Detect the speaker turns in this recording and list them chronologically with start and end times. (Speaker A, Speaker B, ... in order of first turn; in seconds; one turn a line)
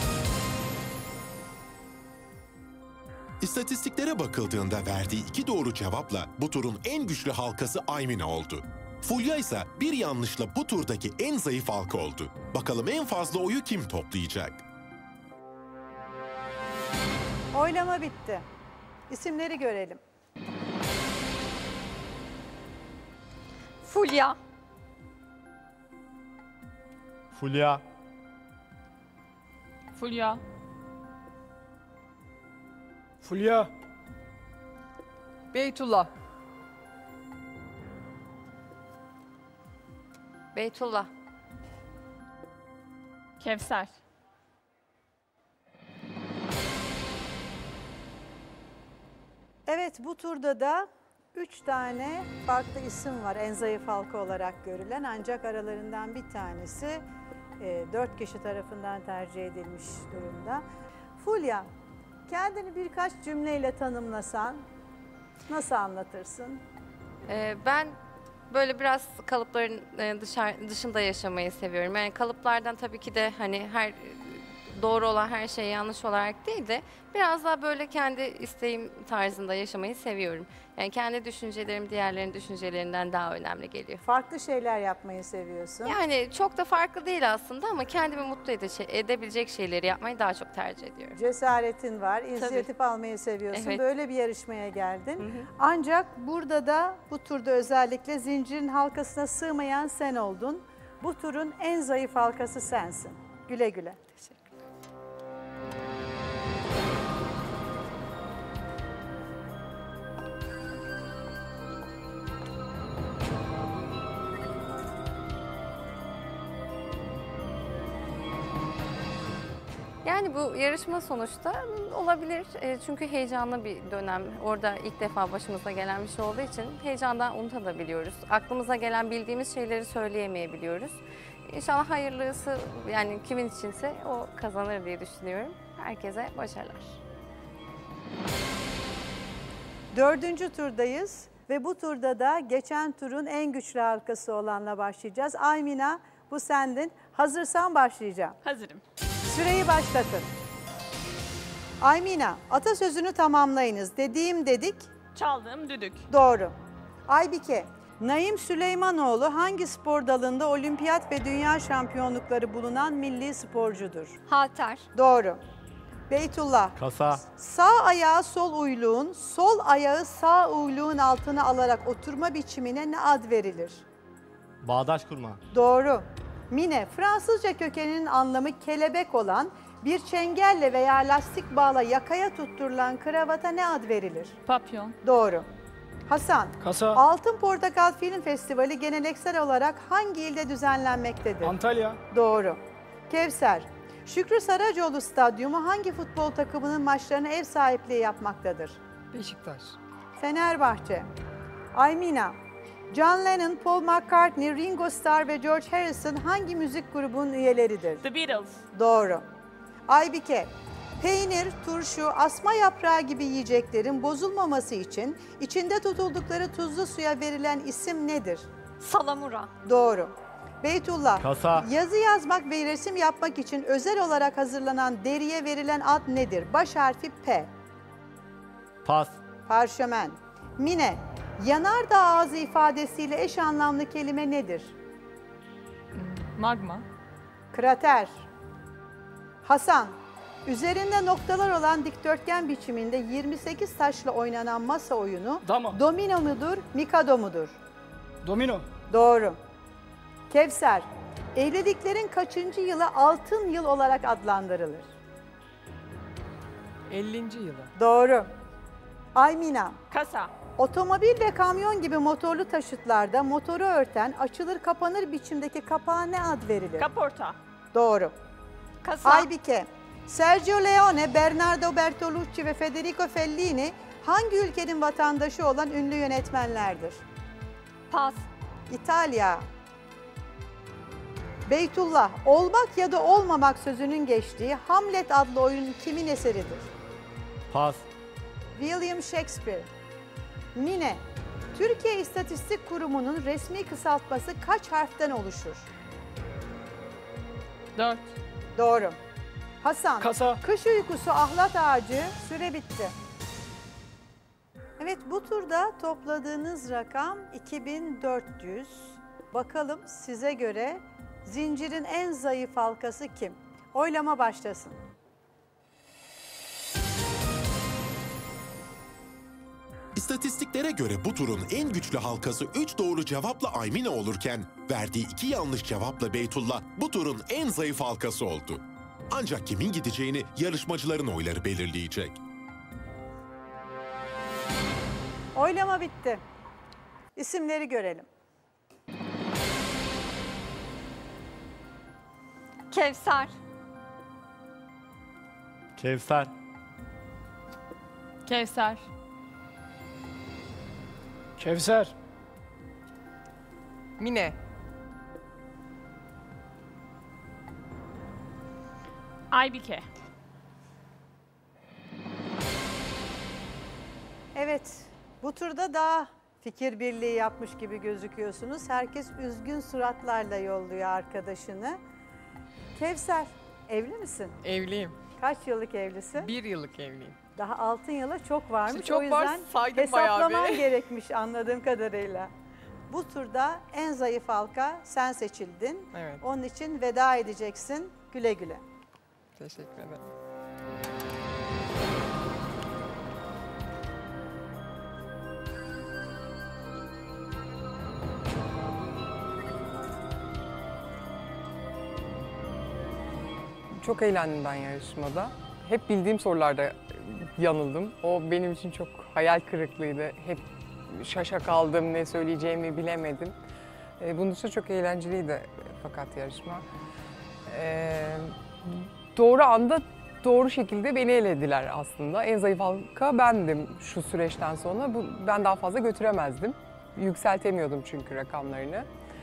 Speaker A: 3.4-14.6
Speaker B: 17.5-18.4
Speaker B: 19.1-20.0
Speaker C: 23.8-24.4
Speaker D: 27.3-27.8
Speaker E: 29.9-30.4
Speaker F: 33.2-33.7
Speaker G: 35.5-36.1
Speaker H: 40.5-41.1
Speaker I: 43.4-43.9
Speaker B: 49.7-57.0
Speaker B: 57.6-60.6
Speaker B: 61.2-61.7
Speaker B: 62.3-64.6
Speaker B: 65.5-66.6
Speaker H: 67.3-68.0
Speaker H: 68.5-84.0
Speaker B: 84.0-86.0
Speaker H: 85.8-91.2
Speaker B: 91.1-104.2
Speaker E: 92.4-92.7
Speaker H: 93.5-93.8
Speaker H: 120.0-137.0
Speaker B: 139.9-148.4
Speaker I: 148.4-148.8
Speaker B: 149.3-150.3
Speaker B: 151.8-154.9
Speaker I: 155.1-156.0
Speaker B: 156.1-156.5
Speaker B: 157.1-164.2
Speaker C: 164.3-164.8
Speaker B: 164.9-165.4
Speaker B: 166.1-173.8
Speaker D: 166.8-167.2
Speaker D: 174.6-175.4
Speaker B: 175.5-184.4
Speaker E: 184.4-185.0
Speaker B: 185.0-185.5
Speaker B: 186.1-191.6
Speaker F: 186.6-187.0
Speaker F: 191.4-192.0
Speaker B: 192.1-198.8
Speaker G: 199.1-199.8
Speaker B: 200.2-201.1
Speaker B: 201.7-202.4
Speaker B: 202.9-208.0
Speaker I: 208.0-208.6
Speaker B: 208.7-209.3
Speaker B: 209.9-218.5
Speaker C: 218.8-219.5
Speaker B: 219.6-227.5
Speaker D: 221.2-221.7
Speaker D: 228.8-229.2
Speaker B: 229.5-234.8
Speaker E: 235.9-236.8
Speaker B: 237.5-238.2
Speaker B: 239.4-247.6
Speaker F: 245.4-245.8
Speaker F: 248.2-248.7
Speaker B: 248.9-249.4
Speaker B: 250.3-254.9
Speaker G: 256.9-257.7
Speaker B: 257.8-258.3
Speaker B: 259.1-259.8
Speaker I: 259.9-260.3
Speaker B: 260.6-266.9
Speaker I: 266.8-267.4
Speaker B: 267.7-268.1
Speaker C: 268.8-269.3
Speaker B: 269.0-277.0
Speaker C: 277.9-278.2
Speaker B: 278.7-279.5
Speaker B: 281.5-286.7
Speaker D: 287.5-287.9
Speaker B: 288.6-289.7
Speaker B: 290.5-291.0
Speaker B: 291.5-295.7
Speaker E: 297.8-298.1
Speaker B: 298.6-299.0
Speaker B: 299.6-302.9
Speaker F: 300.0-300.4
Speaker B: 304.8-314.8
Speaker A: 319.9-332.2
Speaker B: 335.4-336.2
Speaker B: 337.1-338.1
Speaker C: 342.7-343.3
Speaker D: 345.8-346.3
Speaker E: 348.2-348.8
Speaker F: 351.4-351.9
Speaker G: 354.0-354.4
Speaker I: 359.3-359.8
Speaker B: 364.3-371.8
Speaker B: 372.8-374.4
Speaker G: 374.4-375.0
Speaker B: 375.2-376.3
Speaker G: 376.2-377.2
Speaker B: 377.4-382.3
Speaker G: 378.7-380.7
Speaker B: 382.9-388.6
Speaker G: 385.9-386.2
Speaker G: 389.4-390.1
Speaker G: 403.7-413.4
Speaker G: 414.0-416.6
Speaker G: 417.4-428.9